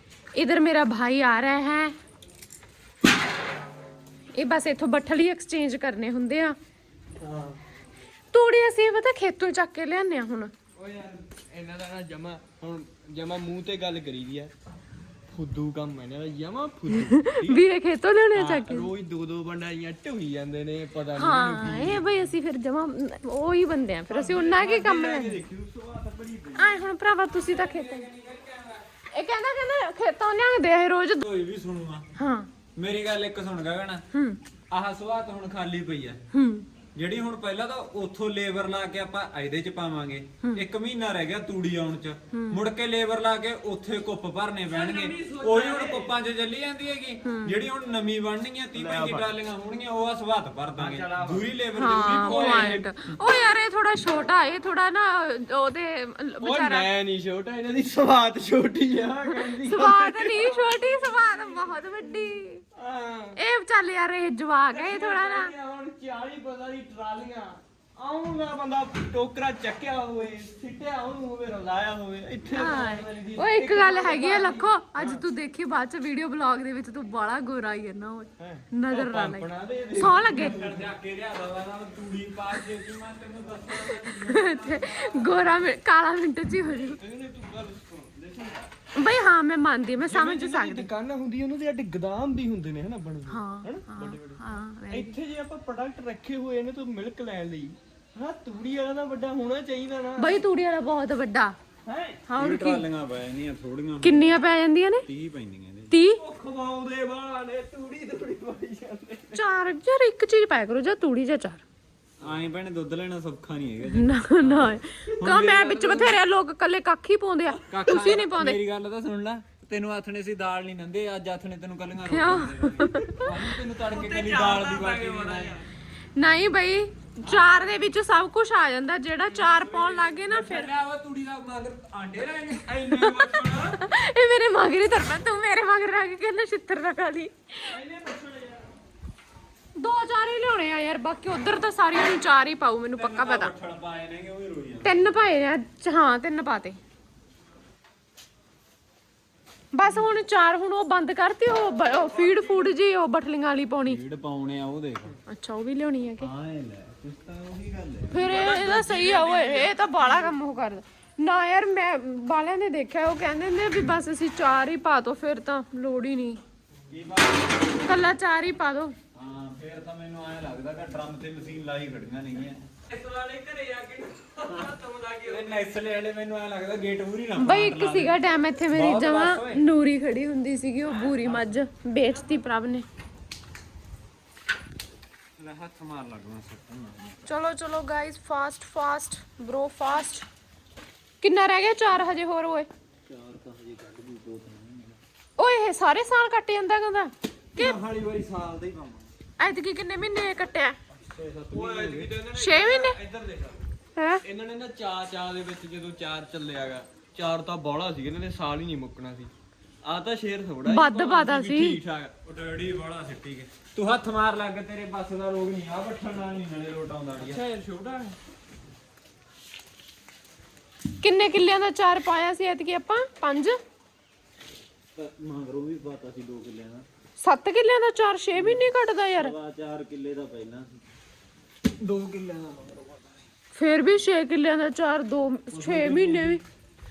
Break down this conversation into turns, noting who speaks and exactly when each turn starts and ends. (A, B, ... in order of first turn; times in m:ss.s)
0:00.3-0:01.9 A
0:04.3-0:06.6 A
0:07.2-0:07.6 B
0:08.3-0:10.5 A
0:10.8-0:14.5 B
0:15.3-0:17.6 B
0:16.9-0:18.9 A
0:18.3-0:22.0 B
0:21.1-0:25.4 A
0:24.1-0:26.8 B
0:26.6-0:28.1 A
0:27.3-0:28.9 C
0:29.1-0:31.2 A
0:31.2-0:32.1 C
0:32.2-0:32.5 A
0:32.8-0:34.0 C
0:34.1-0:34.4 A
0:34.7-0:36.2 C
0:36.3-0:36.6 A
0:36.9-0:52.8 C
0:40.4-0:40.6 A
0:42.3-0:42.6 A
0:44.7-0:46.1 B
0:47.2-0:47.6 A
0:48.7-0:49.3 B
0:50.8-0:51.6 B
0:51.7-0:56.9 A
0:52.1-0:52.9 B
0:56.4-1:02.0 B
0:59.6-1:02.6 A
1:02.7-1:03.4 B
1:03.4-1:05.5 A
1:04.7-1:15.2 B
1:12.5-1:20.6 A
1:18.4-1:20.8 B
1:20.2-1:25.7 C
1:24.2-1:27.0 A
1:26.6-1:28.7 B
1:28.9-1:30.9 A
1:30.0-1:40.4 B
1:33.3-1:35.1 A
1:40.2-1:41.6 A
1:41.8-1:42.2 B
1:42.3-1:42.8 A
1:42.4-1:44.4 C
1:44.0-1:45.0 A
1:45.0-1:46.0 C
1:45.9-1:46.2 A
1:46.1-1:49.4 B
1:49.3-1:51.6 A
1:52.2-1:56.2 C
1:53.9-1:58.6 A
1:57.6-2:05.6 C
2:02.1-2:03.3 A
2:03.8-2:05.6 B
2:06.2-2:10.7 A
2:07.2-2:07.8 C
2:09.3-2:10.2 B
2:10.3-2:12.8 C
2:12.6-2:13.8 B
2:13.0-2:17.7 A
2:17.7-2:18.7 B
2:19.8-2:23.5 A
2:23.0-2:25.3 C
2:24.8-2:26.8 A
2:29.7-2:34.0 A
2:32.1-2:32.7 C
2:33.8-2:35.1 C
2:35.3-2:36.3 A
2:36.2-2:38.7 C
2:38.1-2:46.4 A
2:38.2-2:40.3 B
2:46.9-2:47.8 C
2:47.8-2:49.0 A
2:49.1-2:52.6 C
2:52.9-2:55.6 B
2:55.2-2:58.2 C
2:57.4-3:02.8 A
2:58.7-2:59.6 C
3:05.4-3:07.2 C
3:07.2-3:10.2 A
3:11.2-3:12.7 A
3:13.1-3:15.0 C
3:15.4-3:17.8 A
3:17.6-3:19.1 C
3:19.4-3:20.8 A
3:21.0-3:22.2 C
3:21.5-3:23.6 B
3:22.3-3:23.0 A
3:24.0-3:24.2 A
3:24.2-3:29.3 B
3:29.8-3:32.1 B
3:30.6-3:31.8 A
3:32.2-3:37.4 C
3:37.2-3:38.2 B
3:41.0-3:43.6 A
3:44.9-3:46.8 C
3:47.2-3:49.3 A
3:48.4-3:50.7 C
3:51.8-3:53.1 C
3:53.5-3:56.4 A
3:55.5-3:56.4 C